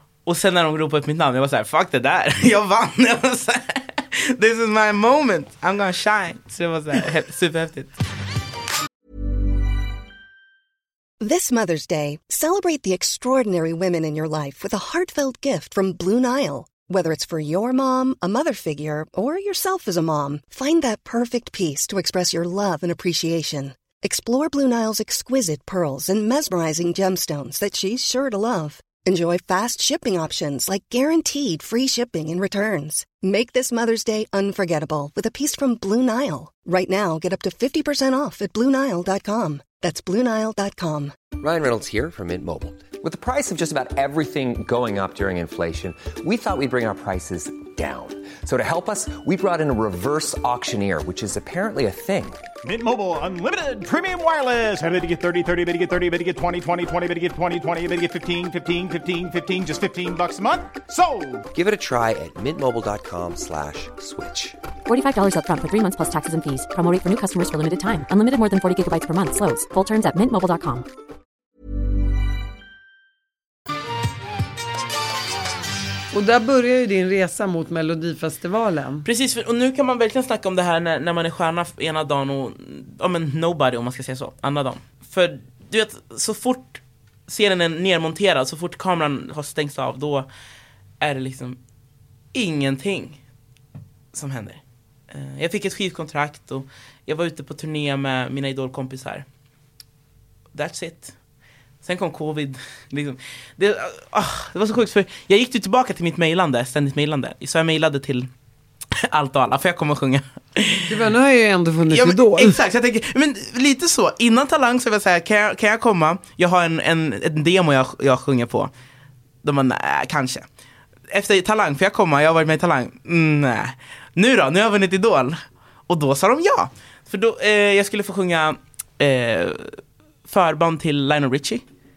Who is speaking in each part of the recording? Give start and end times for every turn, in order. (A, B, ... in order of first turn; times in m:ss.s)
0:00.3-0:07.9 A
0:11.2-0:41.2 B
0:41.4-0:52.4 C
0:52.6-1:01.5 D
1:01.5-1:04.6 C
1:04.9-1:10.9 E
1:16.1-1:19.1 F
1:19.0-1:30.3 A
1:31.0-1:31.6 A
1:32.3-1:33.2 A
1:34.1-1:39.3 A
1:40.5-1:41.2 A
1:41.8-1:48.3 A
1:48.9-1:51.1 A
1:50.9-1:52.6 F
1:51.9-1:58.7 A
1:59.4-2:00.5 A
2:01.1-2:11.6 A